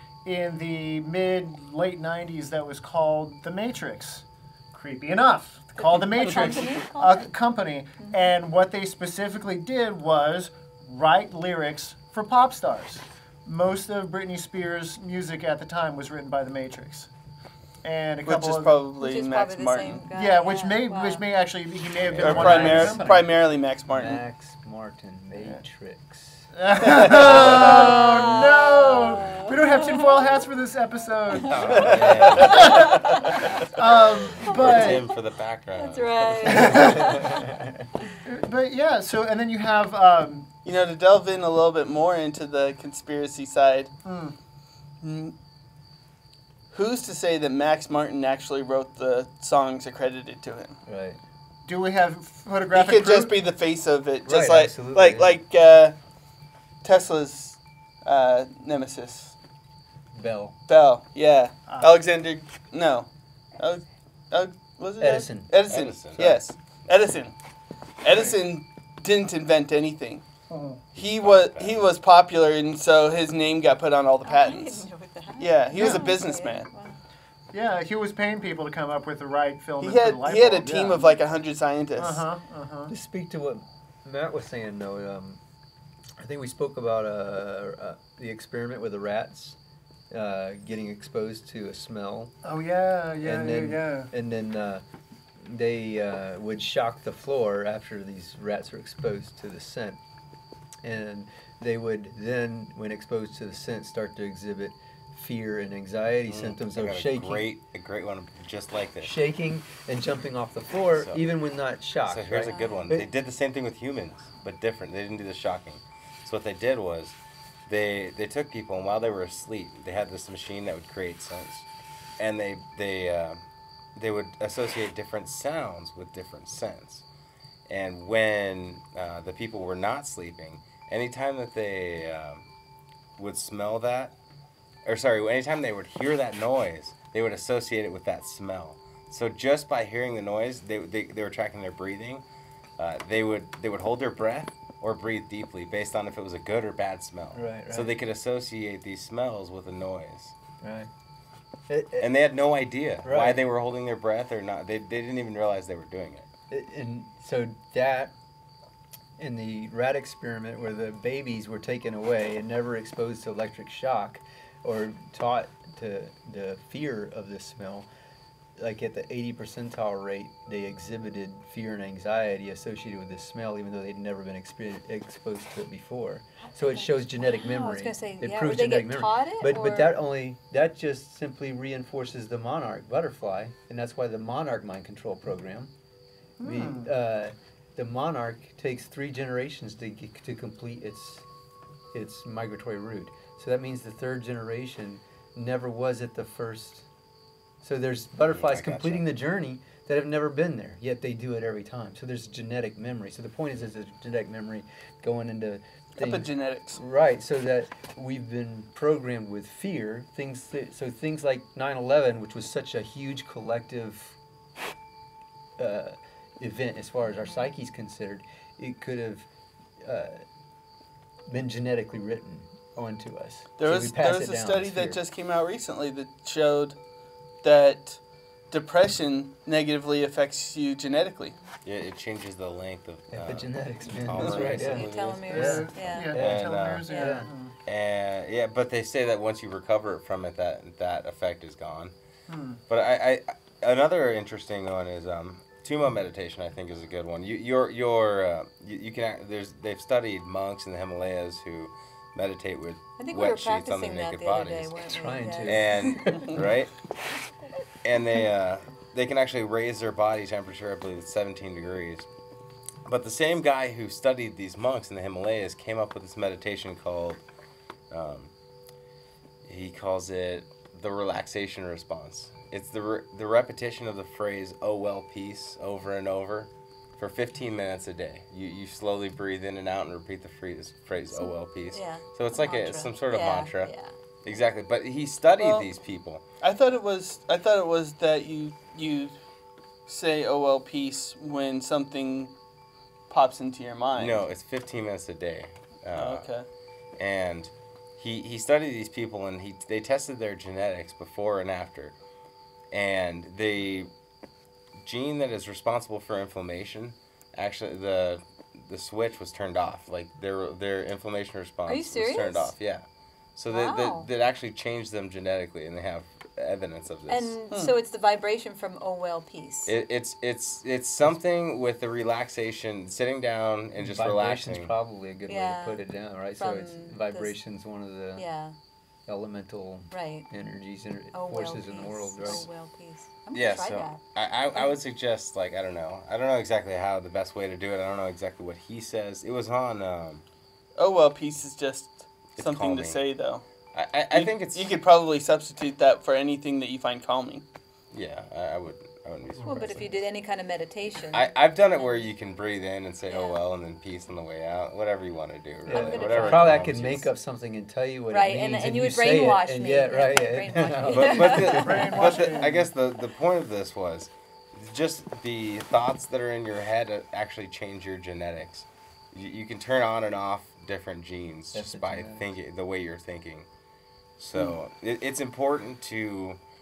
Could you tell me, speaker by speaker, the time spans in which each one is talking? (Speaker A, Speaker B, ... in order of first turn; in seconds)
Speaker A: 0.2-17.1, 17.8-18.8, 20.1-23.3, 26.6-35.1, 36.5-37.4, 38.2-40.5, 44.0-44.4, 51.6-53.3, 61.7-61.9, 68.1-68.4, 70.5-70.8, 75.7-76.1, 77.5-81.1, 82.0-82.9, 92.4-94.1, 186.4-186.9, 235.3-237.5, 242.3-242.6, 361.6-362.7
Speaker B: 5.8-7.3, 8.0-8.3, 19.0-21.2, 27.4-30.5, 32.3-35.1, 35.7-37.3, 74.2-77.0, 112.4-112.9, 176.4-179.9, 217.1-217.5, 234.3-236.1, 236.9-237.2, 253.0-256.2, 281.1-283.9, 311.6-312.5, 313.5-314.1, 317.1-319.7, 325.3-325.8, 326.4-327.4, 328.1-328.6, 329.9-330.3, 331.1-334.8, 349.4-352.1, 353.1-353.4, 355.6-356.5, 358.1-362.0
Speaker C: 18.2-20.0, 22.2-24.2, 31.8-33.3, 40.6-43.9, 45.0-45.3, 46.7-50.8, 52.7-56.0, 56.8-59.3, 60.7-67.3, 68.0-70.2, 70.9-74.9, 75.4-76.7, 79.8-82.2, 206.0-206.8, 223.6-226.8, 227.4-231.4, 256.1-256.4, 285.4-285.7, 286.4-289.1, 289.9-292.3, 293.1-294.2, 295.9-296.4, 340.8-343.4, 344.1-347.4
Speaker D: 22.0-22.9, 31.4-33.0, 34.4-37.1, 65.7-66.4, 71.0-71.8, 106.3-109.1, 111.0-111.2, 112.0-121.7, 122.2-123.4, 124.0-127.0, 127.7-132.5, 133.2-134.1, 134.8-142.2, 142.8-150.3, 152.0-156.2, 198.2-199.0, 231.6-235.6, 236.1-236.9, 237.7-241.9, 242.7-254.8, 255.4-256.7, 257.8-262.1, 262.8-267.2, 267.9-268.3, 269.4-283.7, 284.2-286.2, 293.9-296.3, 297.0-301.9, 302.7-303.9, 304.8-312.8, 313.3-317.4, 319.6-324.7, 333.3-340.2, 342.4-343.0, 343.7-344.7, 347.9-349.9, 351.1-357.1, 360.9-373.5, 374.2-376.4
Speaker E: 22.2-23.0, 23.9-27.5, 36.8-37.6, 50.9-51.2, 54.2-55.4, 60.1-60.5, 65.0-65.5, 82.9-85.4, 86.2-89.6, 90.1-92.3, 93.2-94.8, 95.4-100.0, 100.8-107.5, 109.0-113.1, 147.3-148.0, 150.6-150.9, 151.7-152.1, 153.0-153.4, 156.5-158.1, 159.2-167.9, 168.6-185.7, 186.4-191.2, 191.9-196.8, 197.6-214.2, 215.6-219.3, 219.8-220.2, 221.3-225.0, 233.1-237.3, 254.8-256.1, 323.8-328.2, 329.1-332.4, 349.3-350.0, 355.6-362.5, 371.5-372.2